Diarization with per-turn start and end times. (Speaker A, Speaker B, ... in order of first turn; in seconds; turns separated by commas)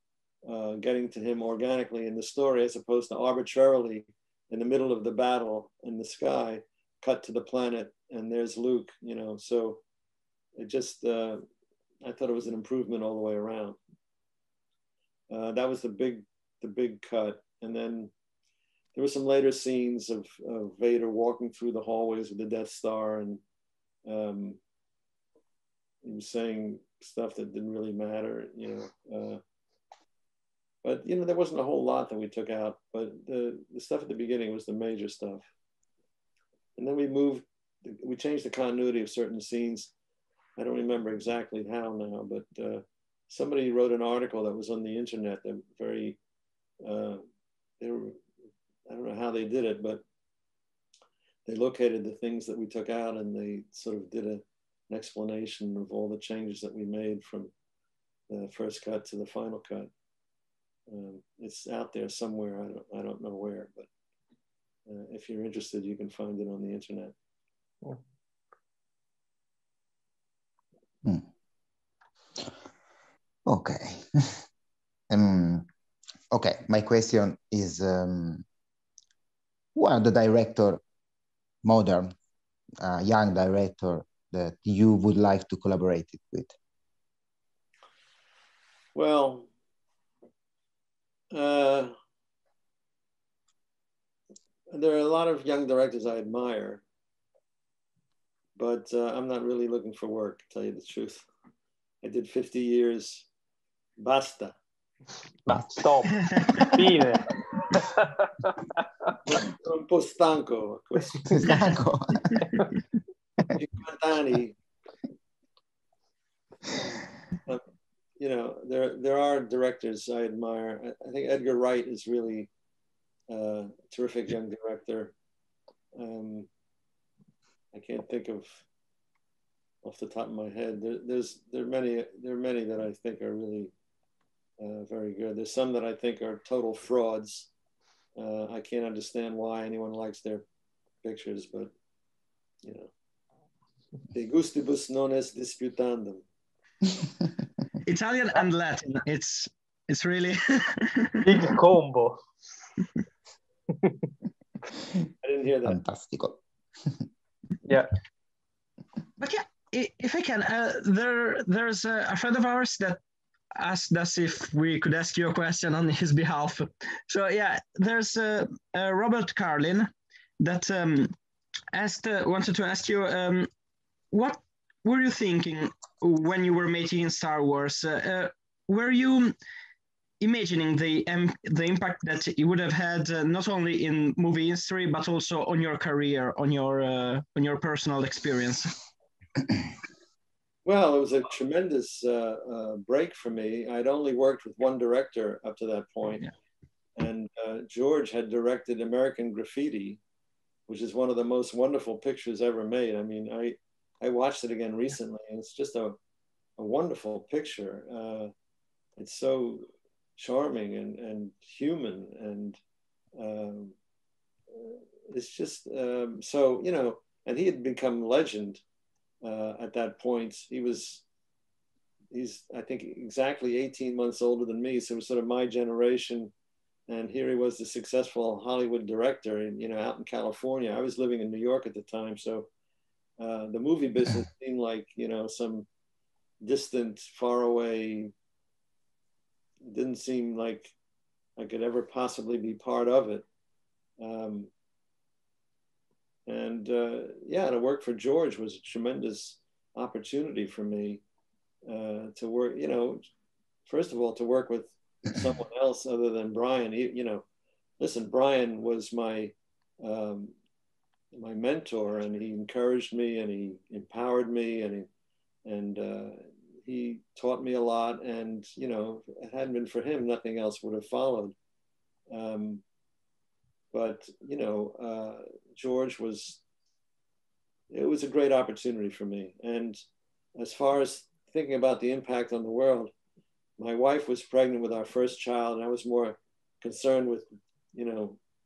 Speaker A: 0.4-9.8, Speaker A: 10.6-11.4, Speaker A: 12.0-13.8, Speaker A: 15.3-18.1, Speaker A: 18.9-23.4, Speaker A: 24.0-24.6, Speaker A: 26.0-29.4, Speaker A: 30.8-35.5, Speaker A: 36.8-39.9, Speaker A: 40.6-46.2, Speaker A: 46.8-47.2, Speaker A: 47.8-48.2, Speaker A: 48.9-50.0, Speaker A: 51.5-57.5, Speaker A: 58.3-59.9, Speaker A: 60.9-63.9, Speaker A: 64.9-67.1, Speaker B: 73.5-74.4, Speaker B: 75.1-75.7, Speaker B: 76.3-78.4, Speaker B: 79.7-80.8, Speaker B: 81.6-82.1, Speaker B: 82.8-86.5, Speaker A: 88.9-89.5, Speaker A: 91.3-91.9, Speaker A: 94.7-96.8, Speaker A: 98.5-101.3, Speaker A: 102.0-103.3, Speaker A: 104.0-104.5, Speaker C: 105.4-108.6, Speaker D: 106.2-106.7, Speaker A: 109.3-111.4, Speaker B: 111.3-112.6, Speaker A: 113.5-114.6, Speaker A: 118.2-122.5, Speaker A: 123.3-125.1, Speaker A: 125.9-126.5, Speaker A: 127.7-128.6, Speaker A: 129.8-133.7, Speaker A: 134.6-137.5, Speaker A: 138.2-140.4, Speaker A: 141.0-141.7, Speaker A: 142.6-142.9, Speaker A: 144.1-146.2, Speaker D: 147.8-151.2, Speaker C: 151.2-152.2, Speaker A: 155.2-155.8, Speaker B: 155.7-156.4, Speaker C: 157.6-157.9, Speaker D: 159.2-163.0, Speaker D: 163.6-171.1, Speaker D: 171.7-173.5, Speaker D: 174.1-179.3, Speaker D: 180.2-188.8, Speaker A: 190.6-196.3, Speaker A: 197.0-200.0, Speaker A: 200.7-206.0, Speaker A: 206.6-208.3, Speaker A: 209.0-212.6, Speaker A: 213.2-213.7, Speaker A: 214.5-218.6, Speaker A: 219.2-221.0, Speaker A: 222.1-226.3, Speaker A: 226.9-232.5, Speaker A: 233.2-235.7, Speaker A: 236.4-238.1, Speaker A: 239.6-240.7, Speaker A: 241.4-243.2, Speaker A: 244.0-244.5, Speaker A: 246.3-251.0, Speaker A: 251.7-253.1, Speaker A: 253.7-257.2, Speaker A: 257.8-260.3, Speaker A: 261.1-264.9, Speaker A: 265.4-271.4, Speaker A: 272.1-272.6, Speaker A: 273.7-276.4, Speaker A: 277.7-279.8, Speaker A: 280.4-282.9, Speaker A: 283.6-288.2